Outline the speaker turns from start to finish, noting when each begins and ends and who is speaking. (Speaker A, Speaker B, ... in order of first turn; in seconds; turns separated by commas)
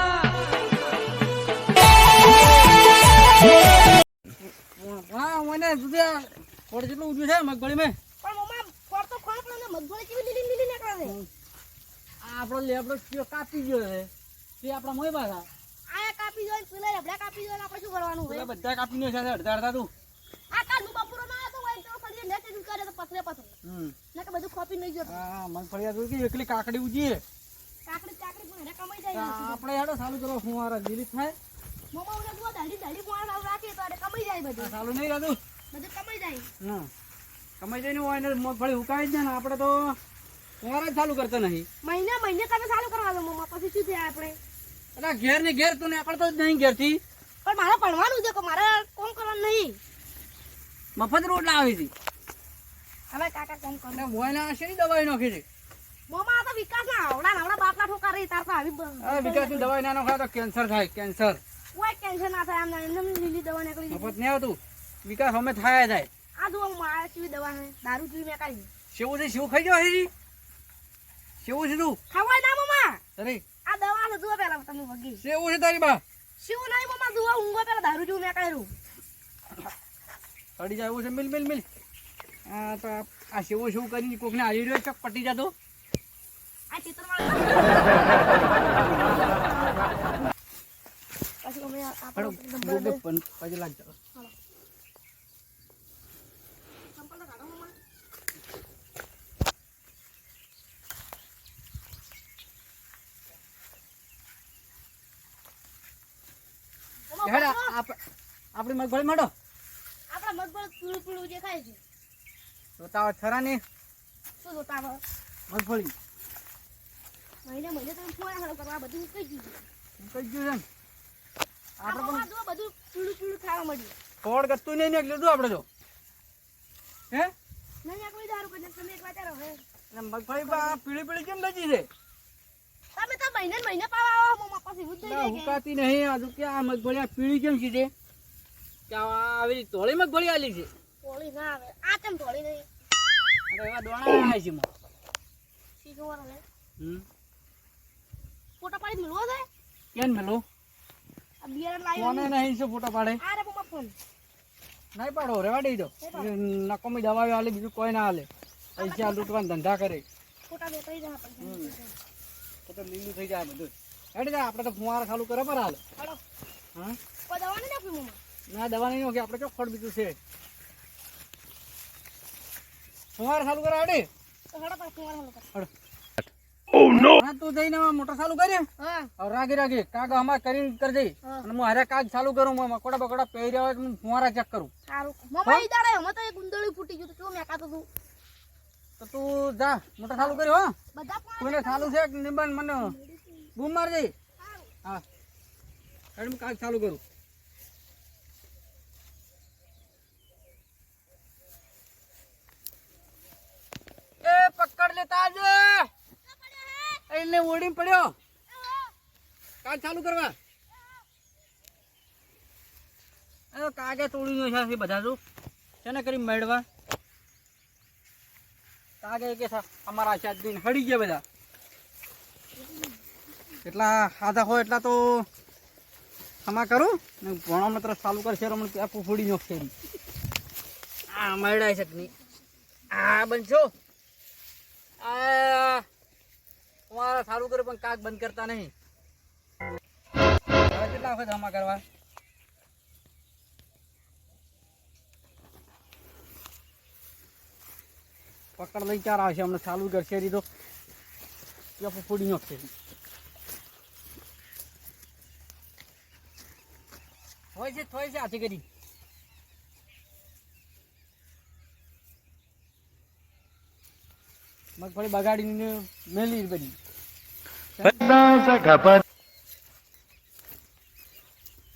Speaker A: 4.8-8.0, Speaker B: 8.2-11.2, Speaker A: 12.2-14.1, Speaker A: 14.6-15.5, Speaker B: 15.9-18.5, Speaker A: 18.3-19.9, Speaker B: 20.5-23.5, Speaker A: 23.6-24.0, Speaker B: 24.1-25.2, Speaker A: 25.1-27.2, Speaker B: 27.9-29.6, Speaker A: 29.1-31.4, Speaker B: 31.9-34.8, Speaker A: 34.6-35.4, Speaker B: 35.7-36.5, Speaker A: 36.6-36.9, Speaker A: 37.6-40.0, Speaker A: 40.6-41.7, Speaker B: 41.8-44.4, Speaker A: 45.0-47.0, Speaker B: 47.5-49.8, Speaker A: 51.0-51.9, Speaker B: 53.1-54.3, Speaker A: 53.9-55.4, Speaker B: 56.1-59.7, Speaker A: 59.0-61.4, Speaker B: 61.7-64.2, Speaker A: 63.9-66.1, Speaker B: 66.4-68.7, Speaker A: 68.9-70.1, Speaker A: 71.4-72.0, Speaker B: 72.1-73.0, Speaker A: 73.2-73.4, Speaker B: 73.7-75.2, Speaker A: 75.2-76.0, Speaker B: 76.4-78.7, Speaker A: 80.6-81.7, Speaker A: 82.5-85.5, Speaker B: 86.7-89.9, Speaker B: 91.4-93.0, Speaker A: 92.2-94.0, Speaker B: 97.0-97.8, Speaker B: 107.1-107.7, Speaker A: 107.2-108.0, Speaker A: 108.5-109.3, Speaker B: 110.1-111.8, Speaker A: 112.8-113.6, Speaker B: 114.4-115.0, Speaker A: 115.5-116.0, Speaker B: 117.5-119.6, Speaker A: 120.0-120.7, Speaker A: 121.8-122.3, Speaker B: 121.8-123.9, Speaker A: 124.2-125.7, Speaker B: 127.8-129.6, Speaker A: 129.9-131.9, Speaker B: 130.4-130.8, Speaker B: 133.0-135.6, Speaker A: 135.0-137.9, Speaker A: 138.9-140.7, Speaker B: 141.0-142.7, Speaker A: 143.5-144.7, Speaker B: 145.8-146.4, Speaker A: 146.8-147.1, Speaker B: 148.6-149.5, Speaker A: 149.9-150.4, Speaker B: 151.4-152.3, Speaker A: 152.0-153.2, Speaker B: 153.2-153.9, Speaker A: 154.9-160.1, Speaker B: 156.0-156.3, Speaker B: 158.8-159.3, Speaker B: 160.5-161.9, Speaker A: 161.4-161.8, Speaker A: 162.7-165.8, Speaker B: 167.3-168.2, Speaker A: 168.5-170.2, Speaker A: 173.2-174.1, Speaker B: 174.5-175.5, Speaker A: 177.0-178.7, Speaker B: 178.8-179.1, Speaker A: 179.2-184.7, Speaker B: 184.9-187.9, Speaker A: 189.0-190.8, Speaker B: 190.9-192.0, Speaker A: 191.4-192.9, Speaker B: 192.8-193.5, Speaker A: 193.6-194.1, Speaker B: 194.4-194.7, Speaker A: 196.2-197.0, Speaker A: 204.2-205.9, Speaker B: 206.3-207.0, Speaker A: 207.1-208.2, Speaker B: 208.5-208.9, Speaker A: 209.6-210.4, Speaker A: 213.5-215.2, Speaker A: 215.8-216.7, Speaker A: 219.0-221.2, Speaker A: 223.7-225.3, Speaker A: 226.4-229.7, Speaker A: 231.1-232.1, Speaker A: 232.9-233.7, Speaker A: 235.0-235.9, Speaker A: 236.9-238.7, Speaker A: 240.7-241.8, Speaker A: 248.6-250.4, Speaker A: 251.8-252.7, Speaker A: 257.6-258.6, Speaker A: 264.8-266.8, Speaker A: 267.8-268.4